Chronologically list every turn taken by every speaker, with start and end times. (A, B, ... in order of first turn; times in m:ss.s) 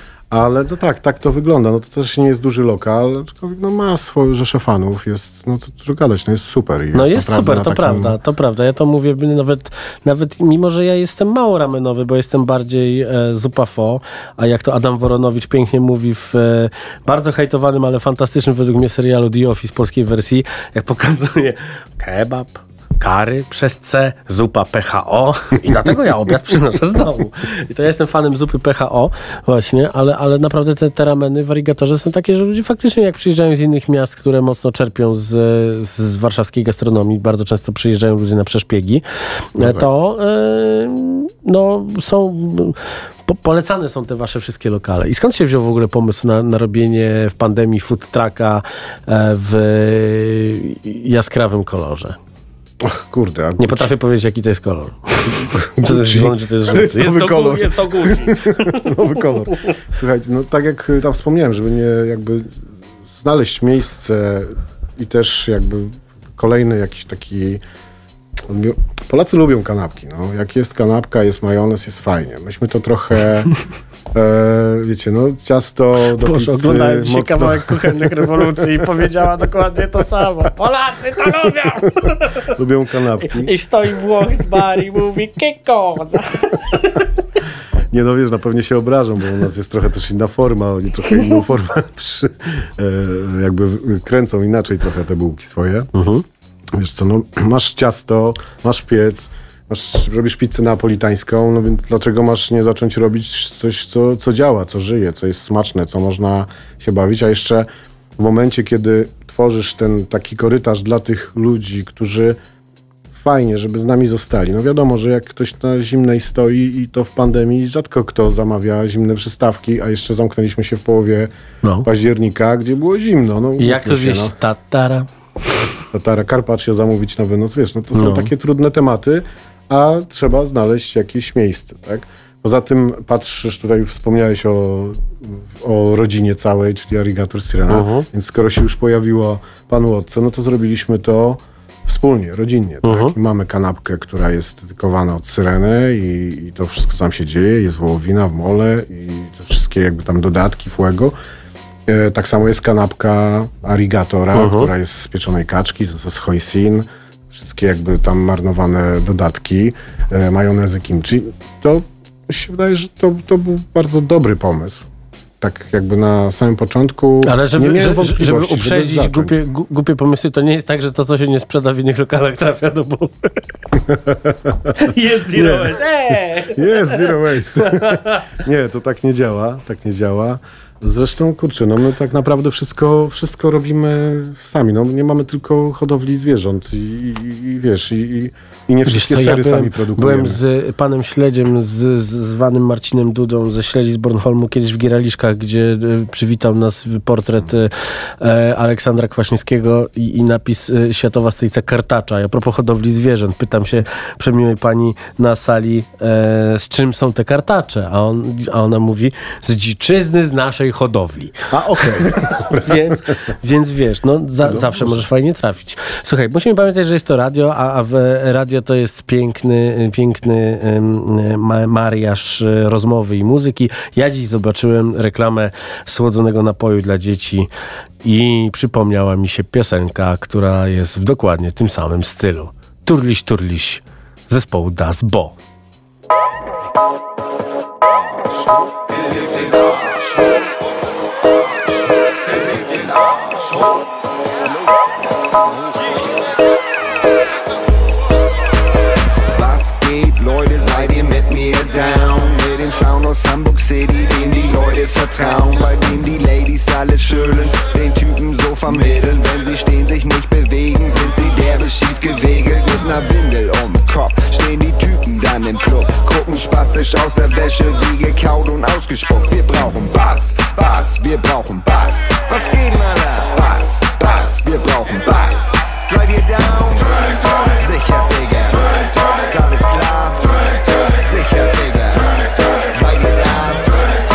0:00.3-0:08.2 A
0:06.9-0:39.0 B
0:39.6-0:52.2 B
0:39.6-0:39.9 A
0:52.8-0:53.9 A
0:53.6-0:58.9 B
0:55.2-1:07.6 A
1:08.4-1:13.5 A
1:14.1-1:18.8 A
1:16.2-1:22.5 B
1:22.5-1:23.5 A
1:23.2-1:27.1 B
1:27.9-1:35.9 A
1:35.9-1:36.2 B
1:36.7-1:52.4 A
1:53.1-2:01.3 A
2:01.8-2:04.4 A
2:03.6-2:05.1 B
2:05.9-2:31.1 A
2:08.0-2:08.3 B
2:17.7-2:18.1 B
2:22.8-2:23.1 B
2:31.9-2:44.8 A
2:34.3-2:34.7 B
2:45.4-2:49.4 A
2:47.2-2:53.4 B
2:53.8-2:54.7 A
2:54.7-2:58.3 B
2:55.3-2:55.8 A
2:56.5-3:10.4 A
3:08.8-3:47.5 B
3:31.5-3:33.0 A
3:34.4-3:35.0 A
3:48.0-3:55.4 B
3:58.8-4:00.4 C
4:02.2-4:06.3 C
4:09.3-4:42.2 C
4:42.7-4:43.7 C